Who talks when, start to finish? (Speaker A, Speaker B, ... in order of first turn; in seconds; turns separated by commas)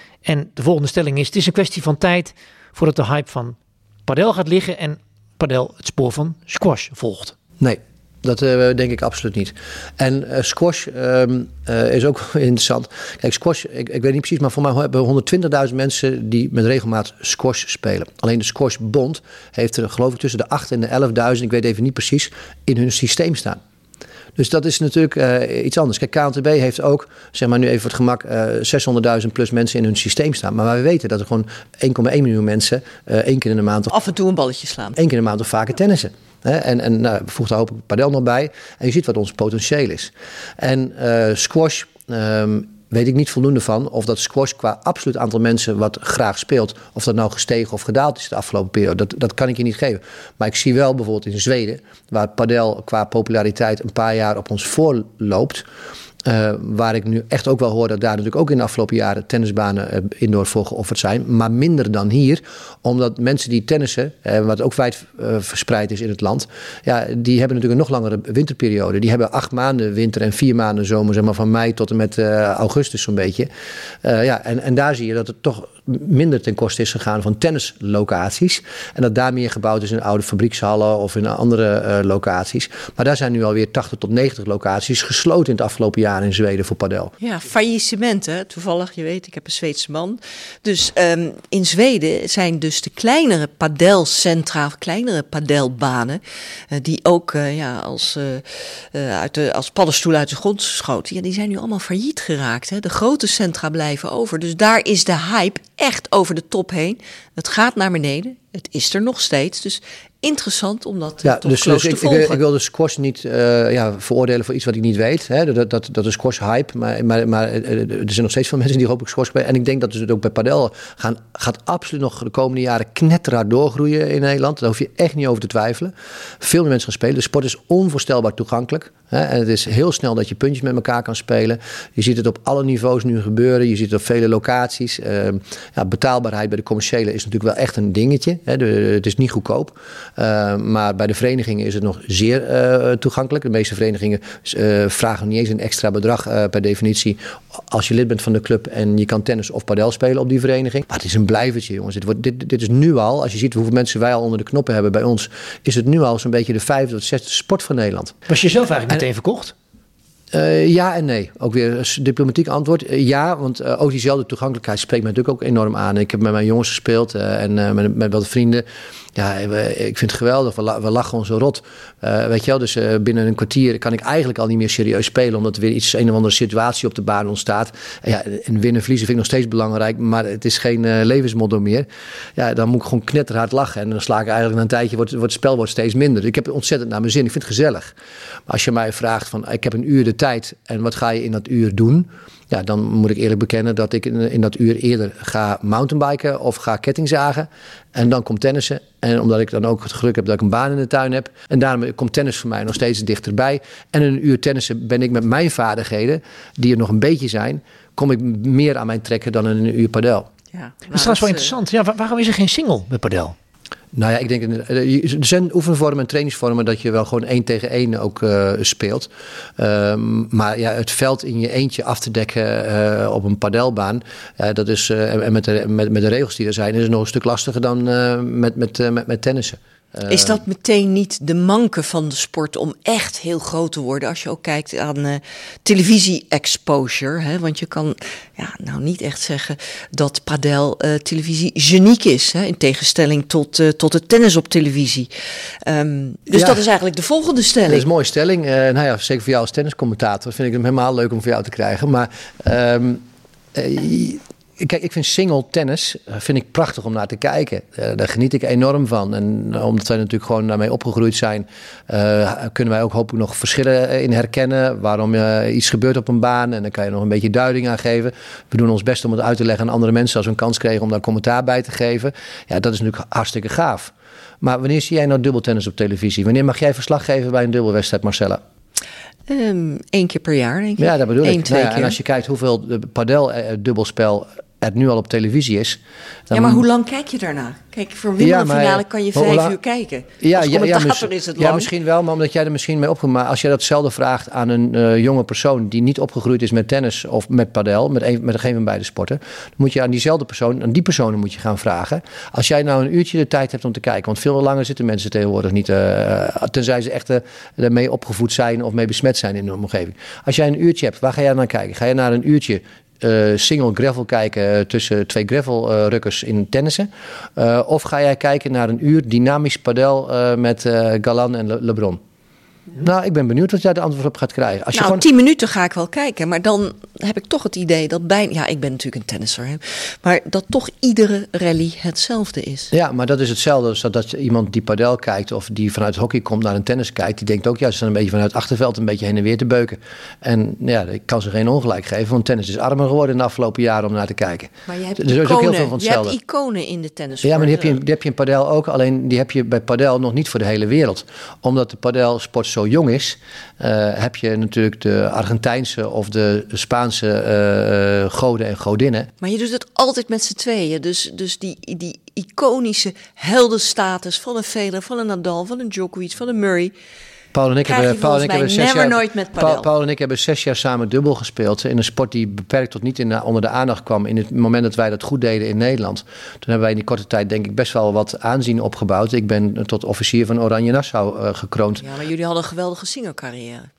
Speaker A: 0.2-7.3, Speaker B: 7.6-23.6, Speaker B: 24.4-33.9, Speaker C: 33.9-35.0, Speaker B: 35.0-55.6, Speaker B: 56.2-73.5, Speaker B: 74.0-87.1, Speaker C: 87.2-112.4, Speaker B: 111.2-158.2, Speaker A: 158.3-159.5, Speaker B: 160.3-187.9, Speaker B: 188.5-210.3, Speaker C: 210.5-211.5, Speaker A: 210.9-213.3, Speaker B: 213.9-230.4, Speaker C: 230.1-245.1, Speaker C: 245.6-247.9, Speaker B: 246.3-246.6, Speaker B: 247.7-253.0, Speaker B: 253.5-278.4, Speaker C: 279.3-282.0, Speaker B: 280.8-285.8, Speaker B: 286.3-286.6, Speaker C: 286.3-291.7, Speaker B: 288.2-289.6, Speaker B: 290.2-322.0, Speaker B: 322.8-325.0, Speaker C: 324.7-332.7, Speaker B: 332.7-346.2, Speaker C: 344.7-347.8, Speaker B: 347.2-359.1, Speaker C: 359.2-366.7, Speaker B: 367.3-381.9, Speaker C: 367.6-369.7, Speaker C: 381.8-383.7